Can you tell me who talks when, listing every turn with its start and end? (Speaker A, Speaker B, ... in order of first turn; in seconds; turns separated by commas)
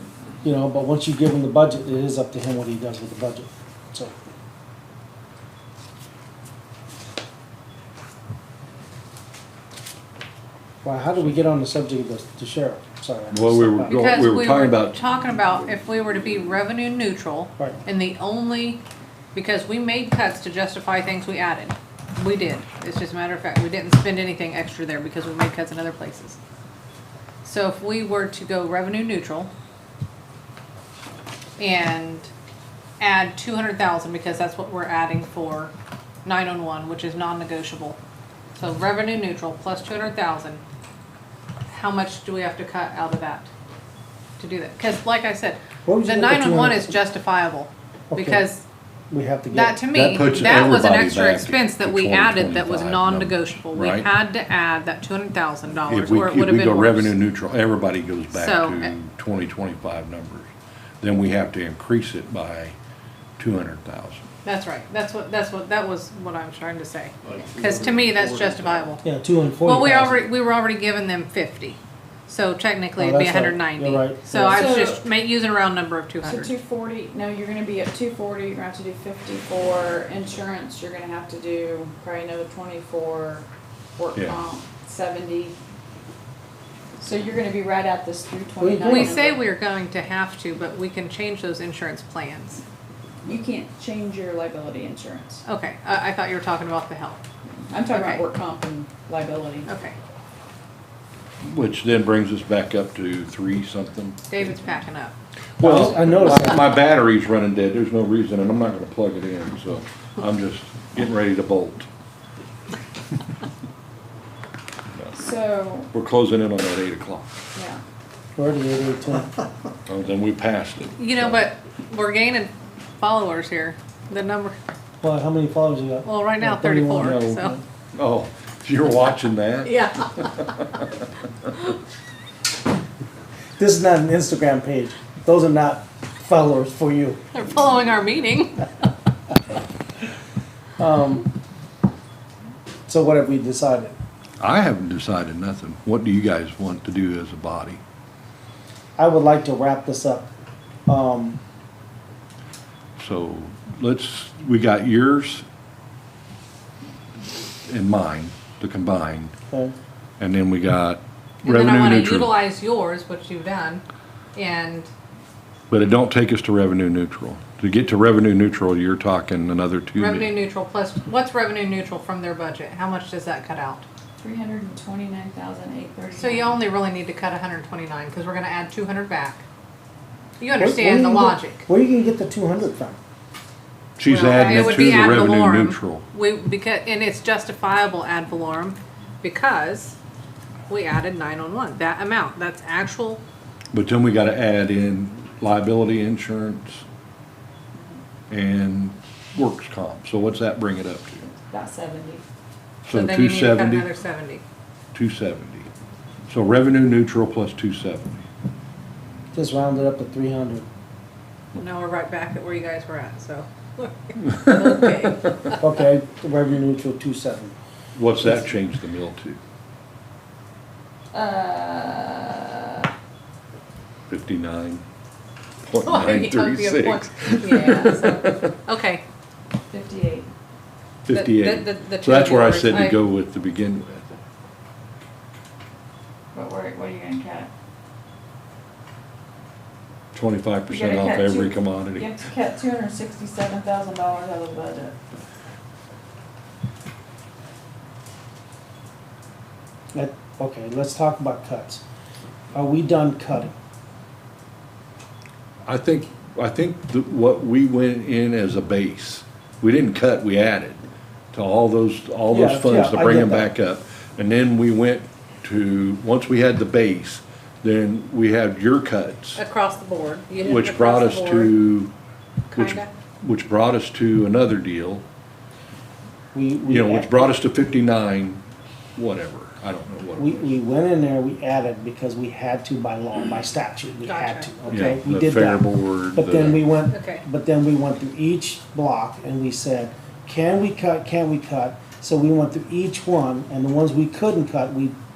Speaker A: 0.4-4.1, Speaker A: 10.8-14.0, Speaker B: 13.3-14.9, Speaker C: 13.9-18.8, Speaker C: 19.3-26.4, Speaker C: 27.4-29.5, Speaker C: 31.6-32.3, Speaker C: 33.0-35.7, Speaker C: 36.2-38.0, Speaker C: 38.5-40.6, Speaker C: 41.7-43.5, Speaker C: 44.4-48.6, Speaker A: 45.9-47.0, Speaker A: 48.1-48.4, Speaker A: 49.1-49.8, Speaker C: 49.5-57.1, Speaker B: 49.9-54.1, Speaker B: 55.9-62.8, Speaker C: 58.3-58.9, Speaker B: 63.4-64.3, Speaker C: 64.4-69.0, Speaker B: 67.2-69.0, Speaker A: 69.0-70.2, Speaker C: 69.6-76.5, Speaker A: 73.0-74.8, Speaker D: 74.3-75.0, Speaker D: 76.2-85.5, Speaker D: 87.0-89.4, Speaker A: 88.6-89.3, Speaker C: 88.8-92.6, Speaker D: 93.2-95.4, Speaker C: 95.5-97.2, Speaker D: 97.7-99.7, Speaker C: 97.9-98.3, Speaker C: 99.7-100.0, Speaker B: 101.4-104.2, Speaker C: 104.3-105.1, Speaker B: 105.6-111.9, Speaker A: 105.6-106.6, Speaker D: 115.1-115.9, Speaker B: 115.9-117.3, Speaker D: 117.5-117.8, Speaker A: 118.4-119.3, Speaker B: 119.8-121.5, Speaker C: 121.0-124.5, Speaker A: 125.0-127.5, Speaker C: 126.0-127.5, Speaker B: 127.0-130.8, Speaker C: 129.6-130.7, Speaker A: 133.6-137.2, Speaker C: 137.3-138.6, Speaker A: 140.8-141.3, Speaker A: 142.9-143.9, Speaker B: 144.4-147.8, Speaker A: 149.0-150.3, Speaker A: 150.8-151.4, Speaker B: 153.0-155.4, Speaker B: 157.7-159.3, Speaker B: 160.2-162.4, Speaker C: 161.4-163.8, Speaker C: 164.3-164.9, Speaker B: 165.7-170.3, Speaker C: 169.9-173.8, Speaker D: 174.2-176.6, Speaker C: 176.2-179.4, Speaker C: 180.4-181.6, Speaker A: 180.6-183.0, Speaker B: 184.0-186.0, Speaker C: 184.1-190.0, Speaker C: 190.7-193.2, Speaker B: 193.7-196.8, Speaker D: 197.7-198.0, Speaker B: 198.3-201.2, Speaker D: 201.2-202.2, Speaker B: 202.8-203.9, Speaker C: 202.9-204.4, Speaker B: 204.9-205.7, Speaker B: 206.3-208.2, Speaker A: 209.3-210.7, Speaker C: 211.5-215.6, Speaker A: 215.5-217.5, Speaker B: 217.9-219.4, Speaker D: 221.1-222.9, Speaker B: 224.1-224.8, Speaker B: 225.6-228.5, Speaker C: 225.8-229.0, Speaker D: 229.7-230.3, Speaker B: 231.1-234.2, Speaker C: 231.1-233.0, Speaker D: 236.3-237.5, Speaker B: 240.1-242.2, Speaker D: 240.7-244.9, Speaker A: 249.9-251.8, Speaker A: 252.5-253.5, Speaker B: 255.7-269.4, Speaker A: 262.3-263.5, Speaker C: 269.4-271.6, Speaker B: 270.4-271.9, Speaker C: 272.5-272.9, Speaker B: 272.5-275.0, Speaker A: 276.3-277.4, Speaker B: 276.6-278.4, Speaker B: 278.9-280.5, Speaker A: 280.2-294.9, Speaker C: 284.0-284.5, Speaker B: 284.7-286.7, Speaker C: 286.9-287.2